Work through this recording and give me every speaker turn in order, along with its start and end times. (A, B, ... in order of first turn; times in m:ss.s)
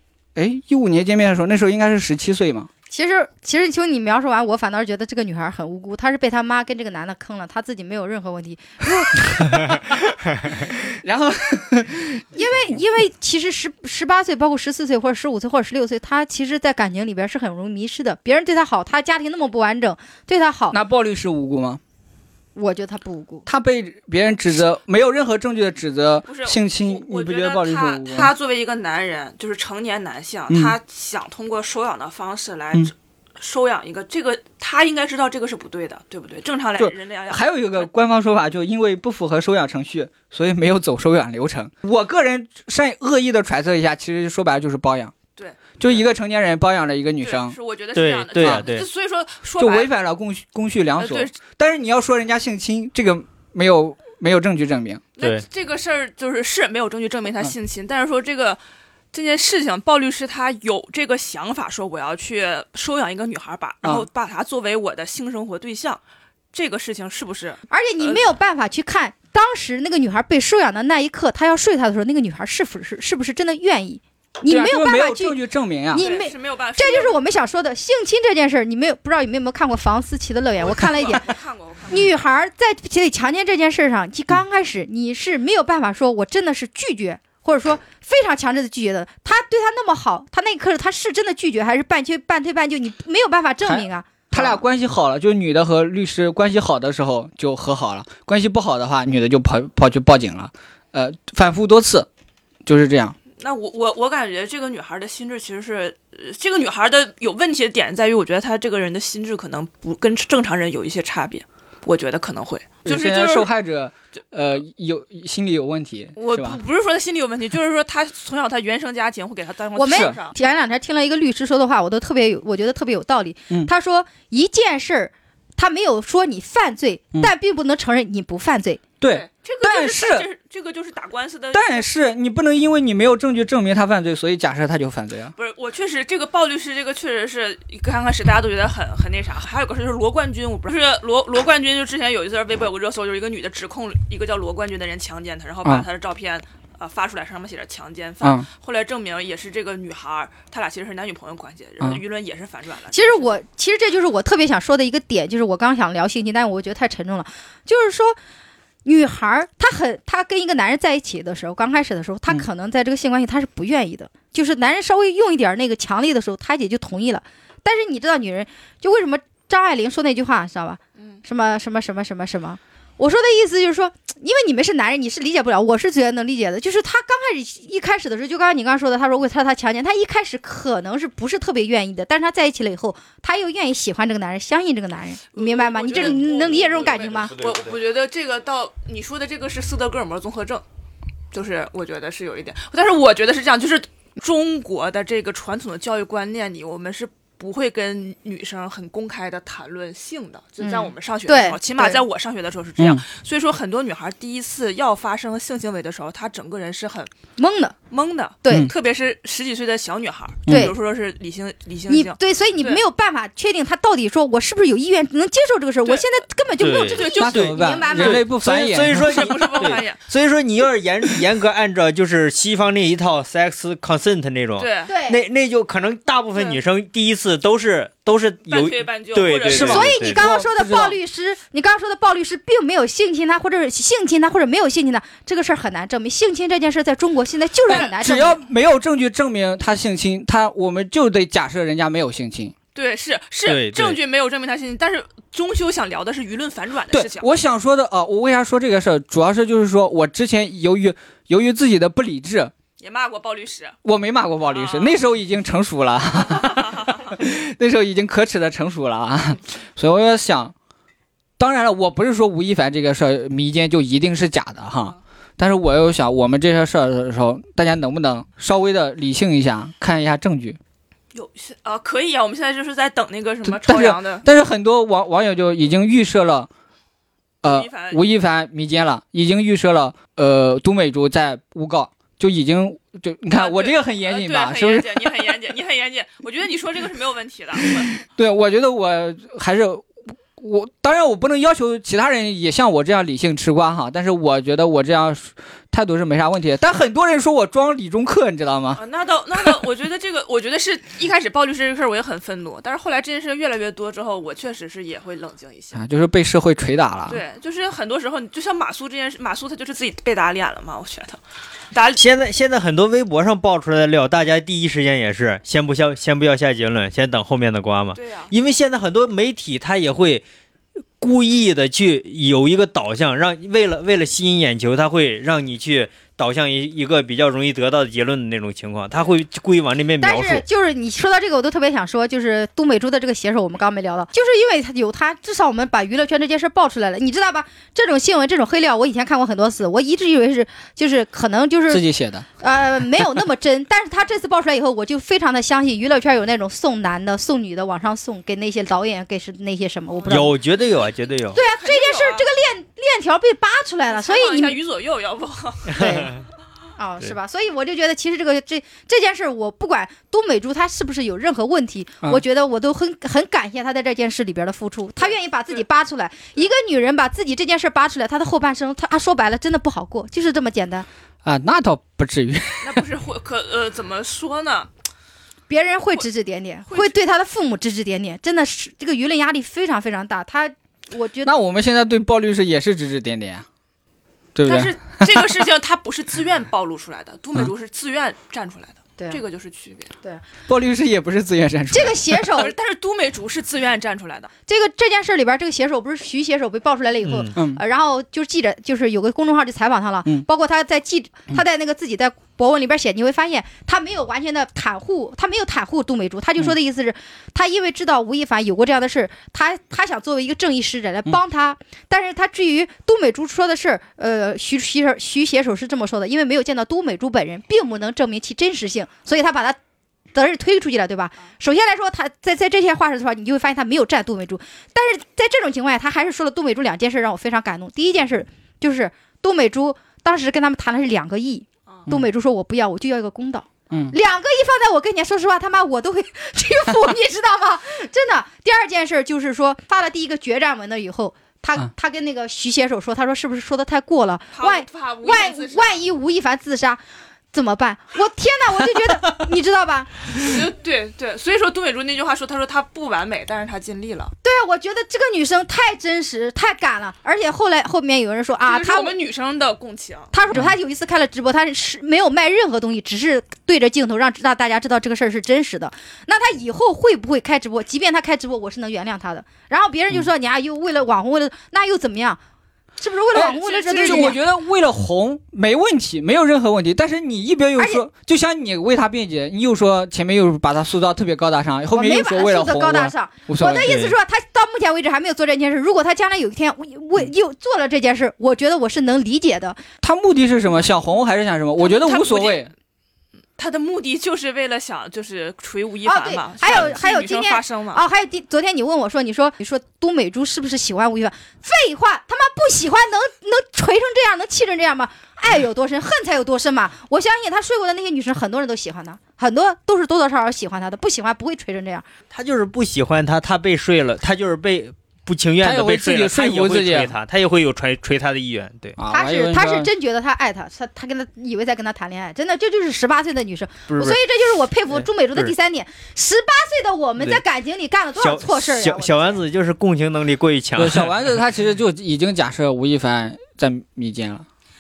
0:00.4-0:02.7 A
0:02.9-0:09.2 B
0:09.5-0:12.4 A
0:12.4-0:20.8 B
0:20.7-0:21.8 A
0:22.6-0:23.5 B
0:23.5-0:28.3 A
0:26.3-0:37.9 C
0:30.5-0:30.8 A
0:36.8-0:45.2 A
0:45.4-0:46.0 C
0:45.8-0:47.6 A
0:47.2-0:49.9 C
0:48.0-0:48.9 D
0:48.4-0:48.8 A
0:49.6-0:55.0 A
0:51.0-0:51.3 C
0:55.2-0:58.6 C
0:55.2-0:55.4 D
0:59.1-1:06.0 C
1:06.5-1:08.3 C
1:07.7-1:15.4 B
1:14.5-1:16.1 A
1:15.9-1:21.3 B
1:15.9-1:17.2 C
1:20.6-1:22.1 C
1:21.9-1:34.6 B
1:33.6-1:42.1 A
1:42.7-1:43.2 A
1:43.4-1:53.5 C
1:52.8-1:56.6 A
1:56.2-2:00.4 C
1:59.8-2:08.8 B
1:59.9-2:00.2 A
2:09.0-2:10.3 A
2:09.0-2:11.8 C
2:11.5-2:15.3 A
2:15.4-2:33.3 C
2:28.2-2:28.5 A
2:32.9-2:38.2 B
2:38.8-3:07.3 B
3:05.3-3:10.6 C
3:06.0-3:07.8 D
3:11.3-3:27.1 C
3:20.6-3:22.0 B
3:22.8-3:23.0 A
3:27.4-3:27.8 B
3:27.9-3:32.8 C
3:28.4-3:28.7 B
3:30.5-3:30.7 A
3:30.5-3:30.8 B
3:31.9-3:38.3 B
3:36.6-3:50.3 D
3:36.8-3:37.4 C
3:37.2-3:39.4 A
3:38.9-3:40.0 C
3:44.6-3:44.9 C
3:44.9-3:45.2 B
3:46.4-3:46.6 C
3:48.5-3:49.9 C
3:49.5-3:51.0 A
3:49.6-3:58.4 B
3:57.7-4:02.5 A
4:02.8-4:07.3 C
4:03.4-4:04.0 D
4:06.9-4:12.5 A
4:12.8-4:13.8 C
4:13.8-4:20.5 A
4:14.5-4:15.0 C
4:16.4-4:17.1 C
4:21.4-4:30.6 A
4:31.1-4:34.2 C
4:33.4-4:36.5 A
4:37.4-4:38.0 C
4:37.4-4:45.3 A
4:43.3-4:48.0 C
4:48.0-4:58.8 A
4:58.8-5:05.8 C
5:05.7-5:07.2 A
5:07.1-5:12.0 C
5:12.0-5:20.2 D
5:18.0-5:18.3 C
5:21.0-5:30.4 D
5:30.0-5:41.8 B
5:41.7-5:42.3 A
5:42.4-5:50.4 B
5:50.0-5:50.3 C
5:50.1-5:51.4 D
5:51.3-5:54.6 B
5:51.4-5:52.3 C
5:53.9-5:55.8 C
5:55.7-5:56.2 D
5:55.8-5:56.1 B
5:56.8-6:10.9 B
6:05.0-6:05.6 C
6:11.2-6:12.8 A
6:12.6-6:14.7 C
6:15.5-6:21.3 B
6:16.7-6:17.0 C
6:21.2-6:23.4 A
6:24.4-6:25.2 A
6:24.5-6:29.9 C
6:30.5-6:32.4 A
6:31.7-6:32.5 B
6:32.4-6:34.3 C
6:34.5-6:59.6 B
6:37.0-6:37.3 D
6:37.3-6:37.6 A
7:00.1-7:26.8 B
7:24.3-7:25.8 C
7:27.3-7:30.0 B
7:30.2-7:34.1 C
7:34.2-7:38.9 B
7:38.4-7:40.1 C
7:40.1-7:52.2 B
7:52.8-7:54.2 B
7:53.1-8:04.0 A
7:53.2-7:54.2 C
7:57.6-7:57.8 B
8:01.7-8:09.6 B
8:09.8-8:12.5 A
8:11.6-8:12.5 C
8:13.4-8:17.8 C
8:15.9-8:31.9 B
8:32.1-8:38.8 D
8:35.4-8:37.0 A
8:38.8-8:39.7 A
8:38.9-8:49.2 B
8:43.7-8:44.0 D
8:44.8-8:45.3 D
8:48.0-8:50.9 D
8:50.6-8:54.2 A